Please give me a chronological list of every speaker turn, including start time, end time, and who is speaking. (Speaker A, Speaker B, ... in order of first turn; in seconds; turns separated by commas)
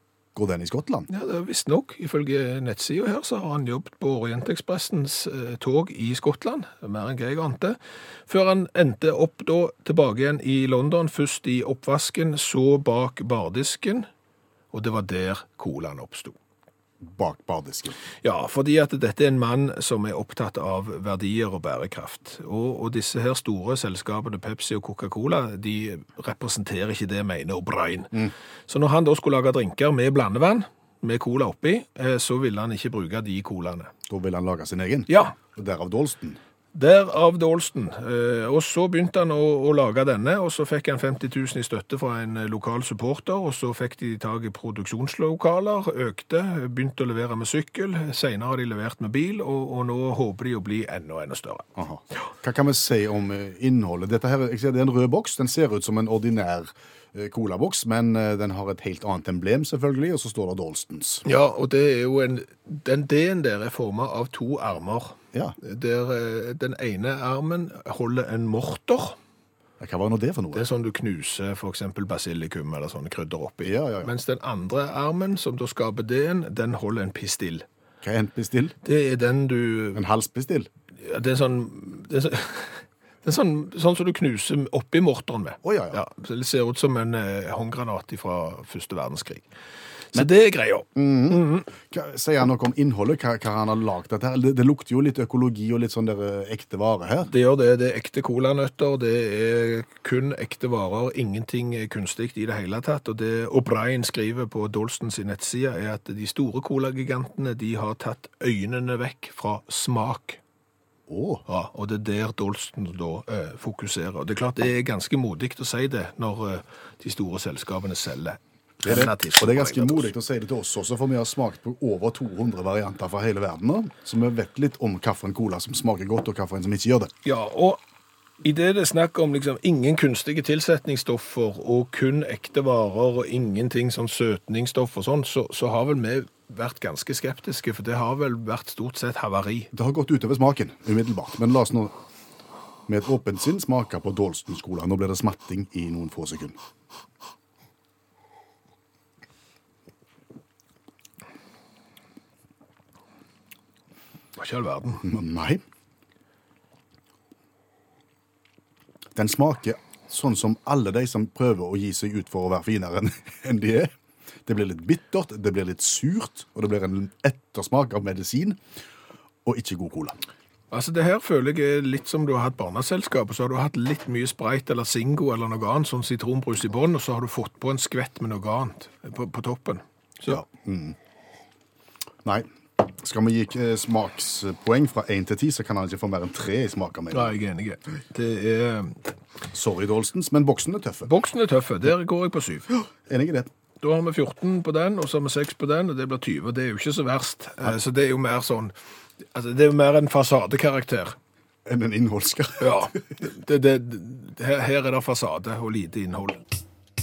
Speaker A: 0.3-1.1, Speaker B: 1.1-14.1, Speaker B: 14.7-16.4, Speaker A: 17.0-18.0, Speaker B: 18.2-33.9, Speaker A: 34.1-36.4, Speaker B: 35.1-35.4, Speaker B: 36.7-51.7, Speaker A: 51.8-61.2, Speaker B: 61.2-69.2, Speaker A: 69.8-70.7, Speaker B: 70.5-77.7, Speaker A: 73.6-74.1, Speaker A: 78.0-78.7, Speaker B: 78.8-80.0, Speaker A: 79.9-80.7, Speaker B: 81.0-89.5, Speaker A: 85.6-86.0, Speaker B: 90.1-91.7, Speaker A: 90.9-97.3, Speaker B: 97.2-110.4, Speaker A: 111.1-111.4, Speaker B: 111.5-120.1, Speaker A: 118.8-127.1, Speaker B: 127.2-127.8, Speaker B: 128.4-139.7, Speaker A: 139.7-141.9, Speaker A: 142.9-146.6, Speaker B: 154.3-155.0, Speaker A: 155.0-155.6, Speaker A: 159.1-163.9, Speaker A: 164.4-168.6, Speaker A: 169.4-170.2, Speaker B: 170.7-180.4, Speaker A: 180.3-181.0, Speaker A: 182.2-187.3, Speaker B: 187.1-189.1, Speaker A: 189.5-191.1, Speaker B: 191.1-192.7, Speaker A: 192.8-193.5, Speaker B: 193.8-198.7, Speaker B: 199.3-201.2, Speaker A: 201.7-202.8, Speaker B: 202.6-206.4